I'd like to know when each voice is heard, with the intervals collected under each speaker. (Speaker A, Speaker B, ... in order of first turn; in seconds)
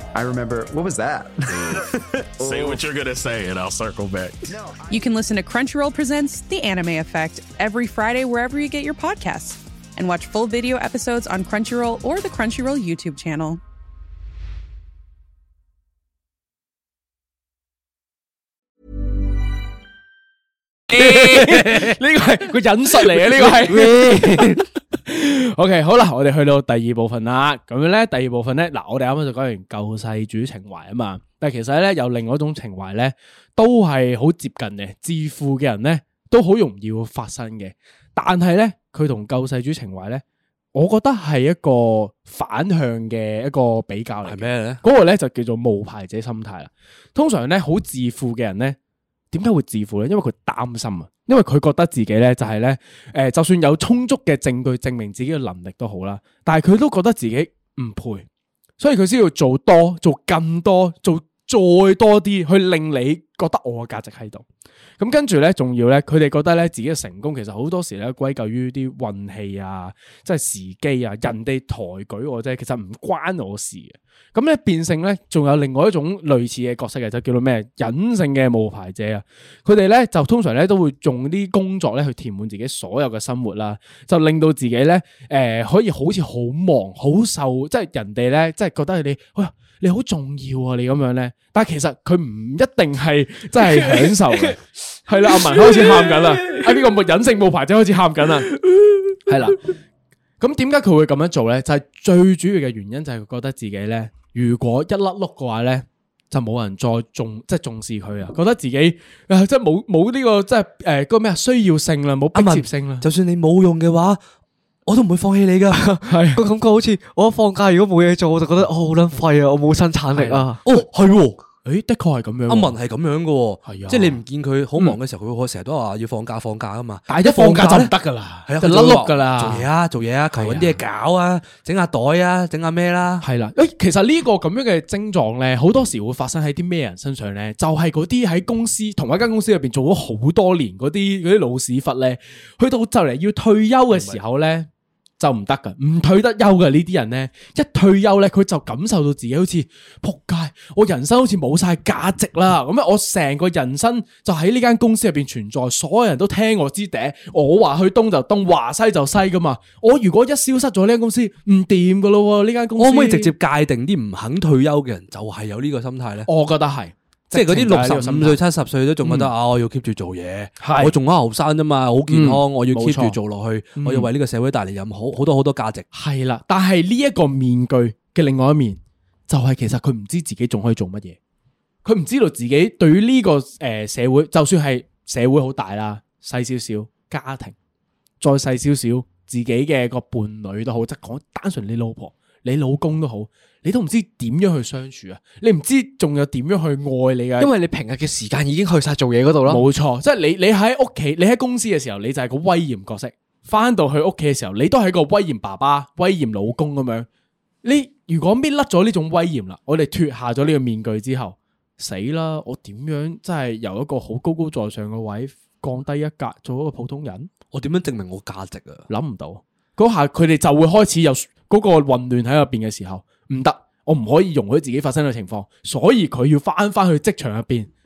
Speaker A: 0.1-1.8, 2.4-2.8, 4.5-5.1
Speaker B: 1.5-4.5
Speaker C: 4.9-13.6
Speaker D: 20.9-24.0, 24.9-40.2, 40.7-48.8, 49.3-58.3, 58.8-64.4, 65.0-98.5, 99.3-99.6, 100.4-113.0, 116.0-116.4, 120.1-120.5, 121.6-122.8, 123.6-124.2, 127.1-129.7, 130.4-130.8, 133.2-144.7, 145.2-163.3, 166.3-168.4, 169.0-169.3, 170.6-170.9, 172.1-173.2, 173.8-174.1, 175.9-181.2, 181.8-187.6, 188.2-197.5, 199.4-207.1, 207.6-217.3, 218.9-227.7
Speaker E: 20.9-22.0, 23.4-24.6, 44.2-44.8, 112.3-114.2, 114.9-115.8, 120.6-121.4, 122.5-127.9, 128.4-133.3, 143.9-144.2, 162.8-166.3, 167.3-175.9, 217.5-218.8
Speaker F: 115.7-120.6, 197.4-199.6